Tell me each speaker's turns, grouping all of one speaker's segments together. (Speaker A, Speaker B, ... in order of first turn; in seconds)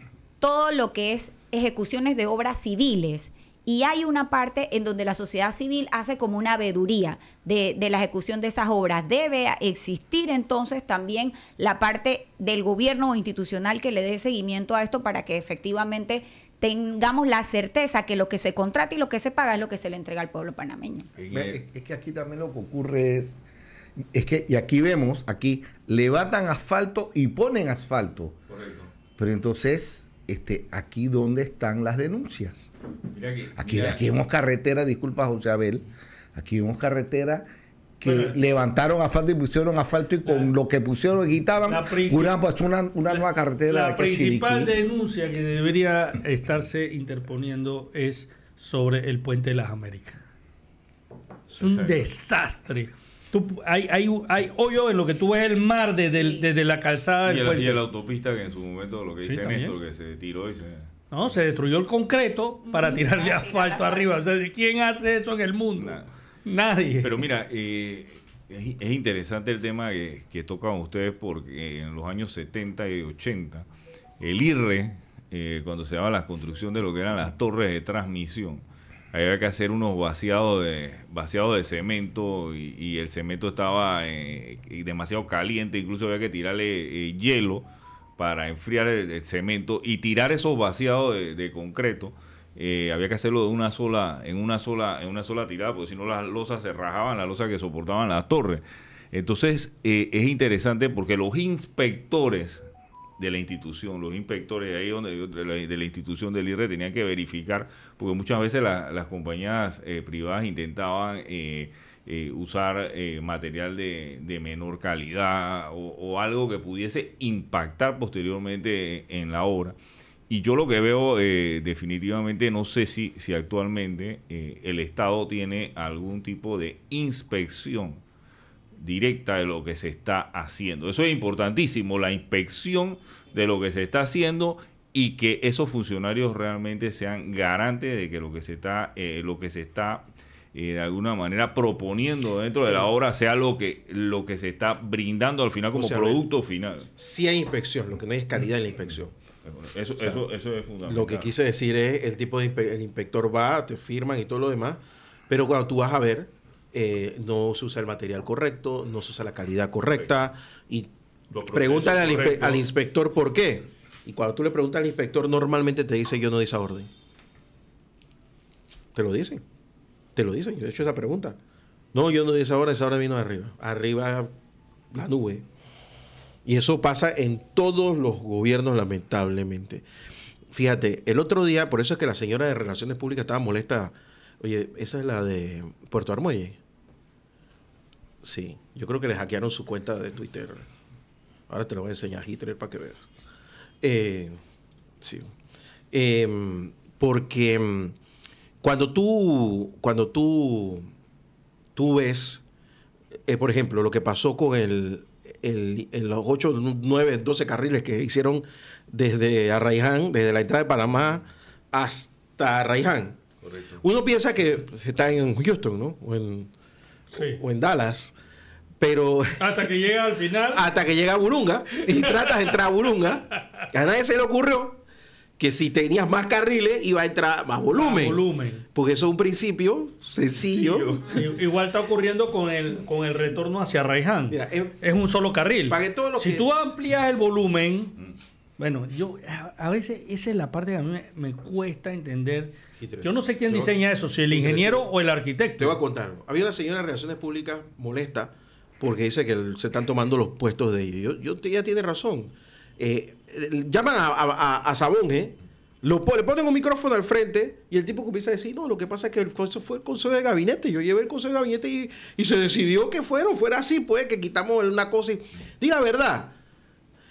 Speaker A: 0.4-21.1, 56.1-56.4, 62.6-64.2
Speaker B: 21.1-21.6, 28.5-28.9, 33.1-34.0, 38.0-38.3, 51.5-52.1, 57.2-60.9, 65.8-66.1, 67.0-73.7, 74.2-87.7, 88.2-102.6, 103.2-119.8, 120.3-128.0, 128.8-146.9, 149.4-151.3, 161.3-162.7, 213.4-213.8, 230.4-231.2
Speaker C: 21.3-23.4, 24.1-28.4, 29.2-32.7, 33.6-37.5, 38.0-44.7
Speaker D: 41.7-42.3, 43.7-50.2, 51.5-57.8, 59.2-59.8, 61.1-67.2, 217.1-217.4, 219.4-220.7, 221.9-222.5, 227.7-228.6, 231.0-238.0, 238.6-245.8
Speaker E: 145.7-146.2, 147.0-149.1, 150.8-160.9, 161.4-166.9, 168.9-169.4, 170.2-171.4, 171.9-174.3, 174.9-175.4, 176.4-179.8, 180.5-186.6, 188.2-190.7, 191.5-193.1, 193.8-194.4, 195.0-195.3, 195.9-197.9, 198.6-200.9, 201.7-202.4, 203.3-213.2, 213.8-216.5, 217.1-218.1, 218.8-219.6, 220.5-224.8, 225.4-228.2, 228.7-231.1, 234.3-234.8, 235.7-236.5, 242.8-243.7, 244.3-244.9, 245.6-266.3